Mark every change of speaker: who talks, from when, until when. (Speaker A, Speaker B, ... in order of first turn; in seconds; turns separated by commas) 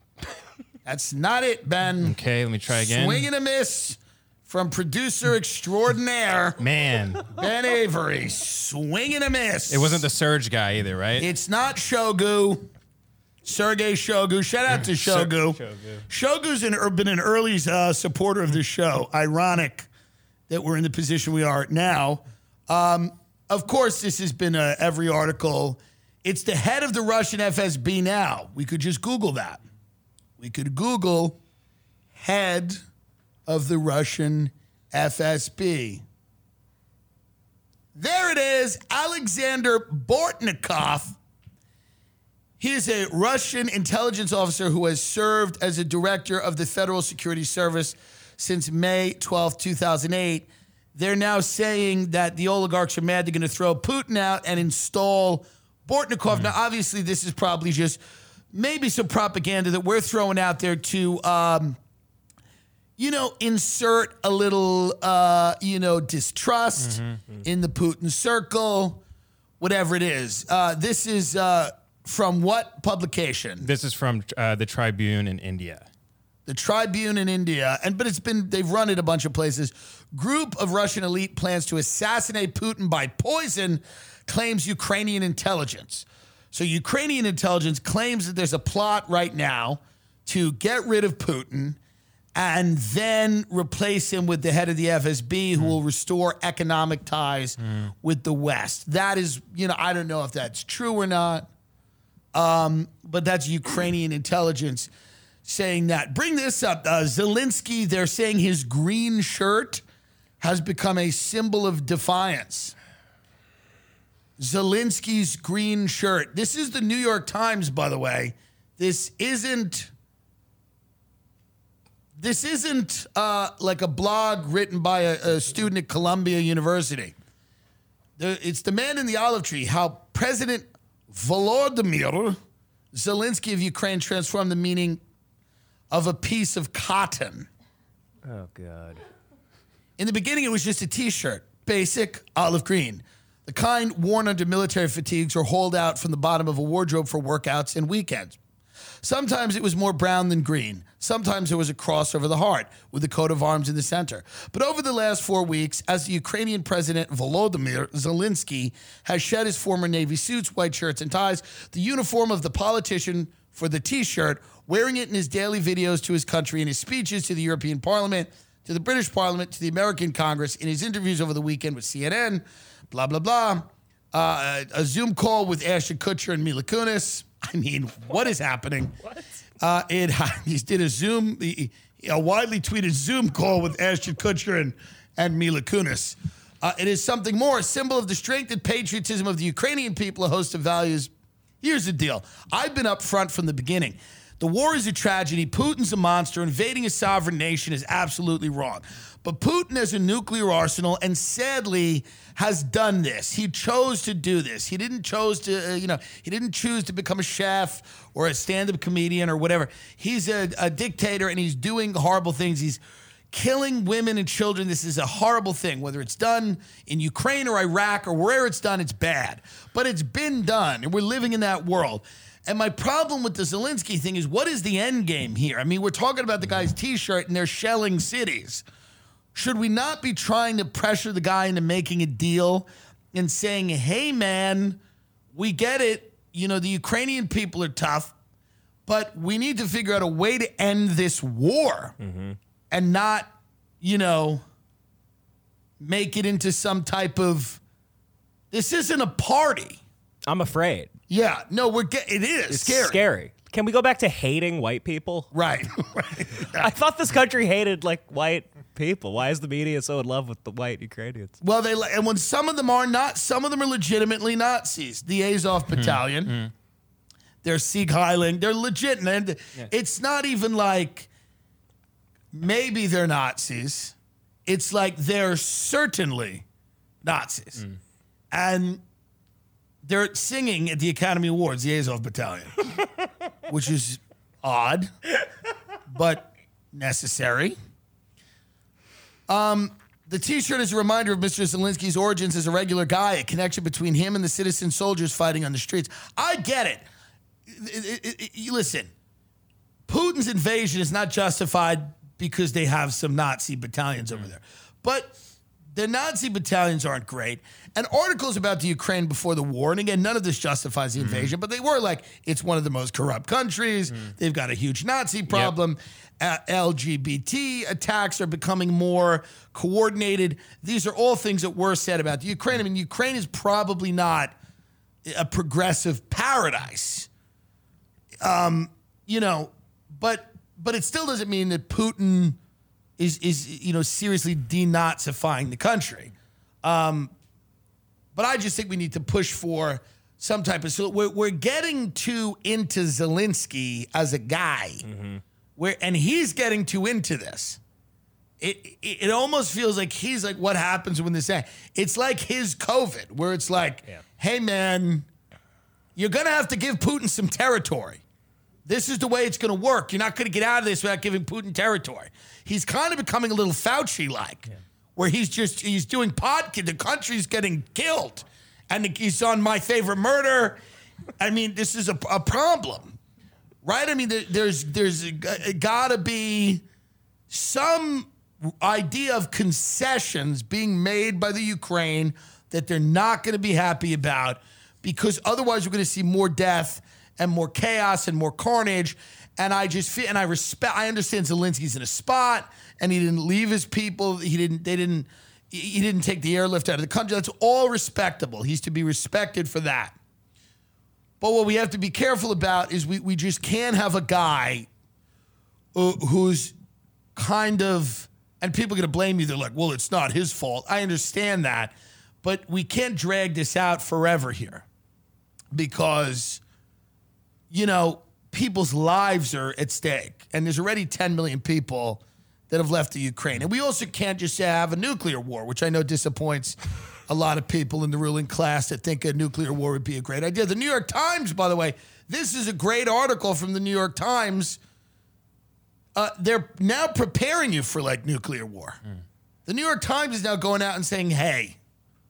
Speaker A: 0.8-2.2, Speaker B: 2.0-3.2, Speaker A: 2.7-6.6, Speaker B: 6.6-7.4, Speaker A: 7.3-10.0, Speaker B: 9.7-11.3, Speaker A: 11.2-12.7, Speaker A: 13.4-19.9, Speaker B: 15.0-16.0, Speaker A: 20.5-29.6, Speaker A: 30.4-31.4, Speaker A: 32.1-32.8, Speaker A: 33.5-36.0, Speaker A: 37.9-41.2, Speaker A: 42.6-58.0, Speaker A: 58.5-61.8, Speaker A: 63.0-69.0, Speaker B: 66.8-67.2, Speaker A: 69.6-73.7, Speaker B: 73.6-75.9, Speaker A: 76.5-91.8, Speaker A: 92.3-101.5, Speaker A: 102.3-104.9, Speaker A: 105.4-109.8, Speaker A: 110.4-112.7, Speaker A: 114.4-119.9, Speaker A: 122.2-127.1, Speaker A: 128.2-132.4, Speaker A: 132.9-135.0, Speaker A: 135.9-137.5, Speaker C: 138.2-139.0, Speaker A: 140.0-148.4, Speaker A: 149.0-179.0, Speaker A: 179.6-228.6, Speaker A: 229.3-234.8, Speaker A: 235.3-238.1, Speaker A: 238.8-241.9, Speaker C: 242.0-242.4, Speaker A: 242.7-244.4, Speaker A: 245.8-247.6, Speaker A: 248.5-249.8, Speaker C: 250.2-250.9, Speaker A: 251.1-253.0, Speaker C: 252.5-255.3, Speaker A: 255.3-256.7, Speaker C: 256.4-261.4, Speaker A: 261.4-266.4, Speaker B: 265.8-266.5, Speaker A: 267.4-271.1, Speaker A: 272.3-273.9, Speaker A: 274.4-276.4, Speaker A: 277.0-277.6, Speaker A: 278.3-278.8, Speaker A: 279.8-282.5, Speaker A: 283.5-284.9, Speaker A: 285.9-287.6, Speaker A: 289.3-296.8, Speaker A: 297.5-298.9, Speaker A: 299.9-305.1, Speaker A: 305.7-324.3, Speaker B: 311.0-311.3, Speaker A: 325.0-327.1, Speaker A: 328.2-332.4, Speaker A: 333.0-337.1, Speaker A: 338.1-344.8, Speaker C: 344.8-345.2, Speaker A: 345.6-347.6, Speaker A: 348.4-355.1, Speaker A: 355.9-358.0, Speaker A: 358.6-370.6, Speaker A: 371.2-373.0, Speaker A: 373.6-376.6, Speaker A: 377.3-399.9, Speaker A: 401.2-404.7, Speaker A: 405.7-406.5, Speaker A: 407.1-414.6, Speaker A: 415.5-416.4, Speaker A: 417.5-426.6, Speaker A: 427.1-434.6, Speaker A: 435.9-438.8, Speaker A: 439.5-441.6